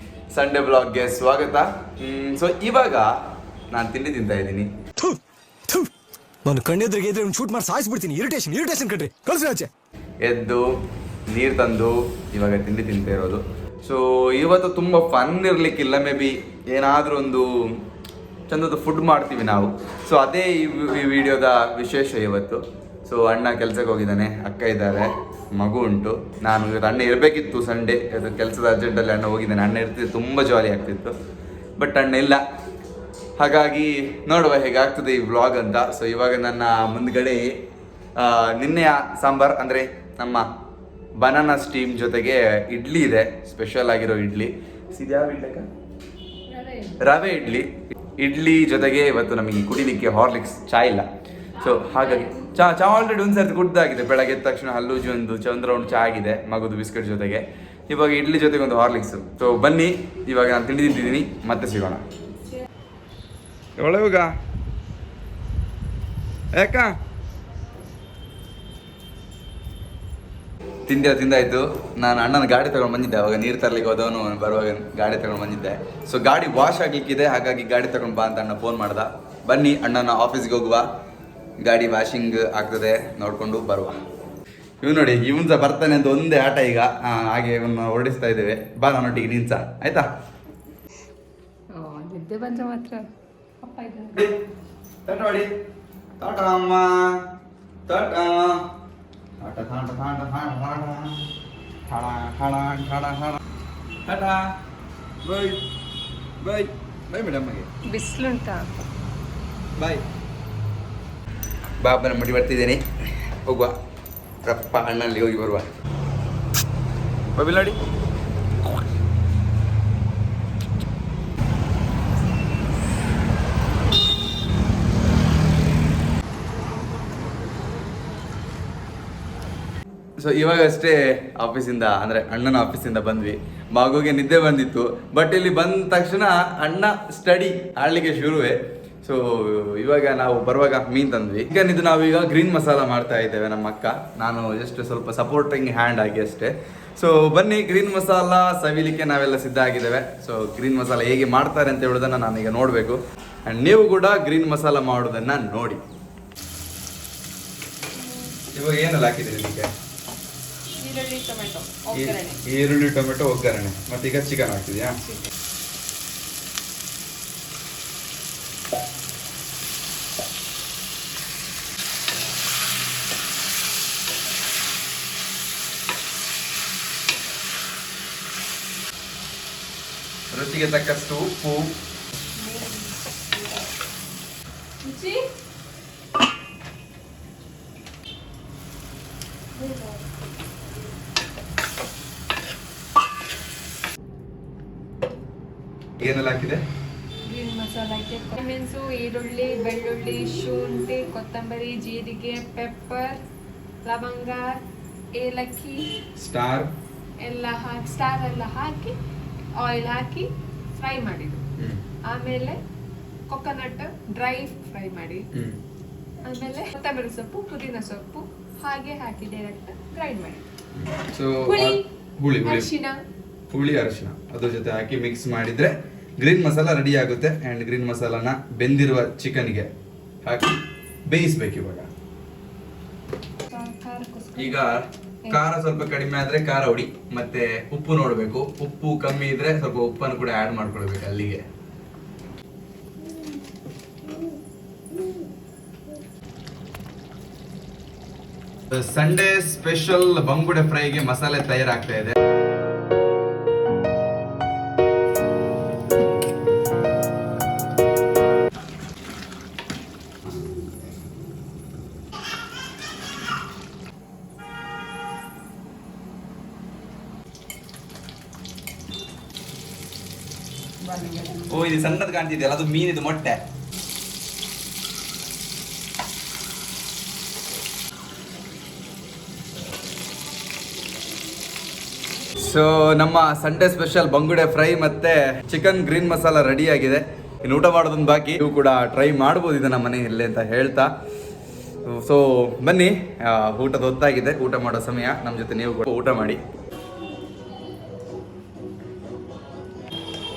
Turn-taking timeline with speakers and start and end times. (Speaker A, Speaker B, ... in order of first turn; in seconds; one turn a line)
Speaker A: 0.3-3.1
Speaker A: 3.7-4.7
Speaker B: 5.0-5.9
Speaker B: 6.5-9.7
Speaker A: 10.2-10.6
Speaker A: 11.3-17.5
Speaker A: 18.5-31.1
Speaker A: 31.8-32.4
Speaker A: 33.4-37.4
Speaker A: 38.2-40.5
Speaker A: 41.2-45.7
Speaker C: 46.5-46.9
Speaker A: 47.0-51.1
Speaker A: 51.6-62.0
Speaker C: 51.6-52.4
Speaker A: 63.8-64.3
Speaker A: 66.6-66.9
Speaker A: 70.9-80.8
Speaker A: 81.6-84.0
Speaker A: 84.8-90.1
Speaker C: 91.8-93.0
Speaker C: 93.6-94.2
Speaker A: 95.1-95.5
Speaker A: 96.2-97.2
Speaker A: 97.9-98.6
Speaker A: 99.4-101.3
Speaker A: 101.9-103.4
Speaker A: 104.1-104.5
Speaker A: 105.2-105.6
Speaker A: 106.4-107.7
Speaker C: 107.9-108.7
Speaker A: 109.8-110.0
Speaker A: 111.8-113.7
Speaker A: 114.5-115.7
Speaker A: 117.3-117.8
Speaker A: 130.2-155.8
Speaker C: 158.0-158.4
Speaker A: 158.5-159.7
Speaker C: 160.8-162.4
Speaker A: 161.9-165.0
Speaker C: 165.0-165.3
Speaker A: 180.3-181.8
Speaker C: 182.4-183.7
Speaker C: 184.8-185.2
Speaker C: 189.6-190.0
Speaker A: 196.0-196.6
Speaker C: 197.3-203.2
Speaker C: 203.8-205.9
Speaker A: 206.2-206.7
Speaker C: 207.2-209.0
Speaker C: 209.6-211.4
Speaker C: 212.1-212.6
Speaker C: 213.3-215.2
Speaker A: 215.3-215.6
Speaker C: 216.2-220.4
Speaker A: 220.8-222.7
Speaker C: 221.4-221.8
Speaker C: 222.4-223.0
Speaker A: 223.5-229.7
Speaker A: 230.2-231.9
Speaker C: 233.5-234.6
Speaker A: 234.4-241.4
Speaker A: 248.7-252.2
Speaker C: 270.8-271.5
Speaker A: 271.5-273.4
Speaker A: 282.4-290.9
Speaker A: 291.9-296.4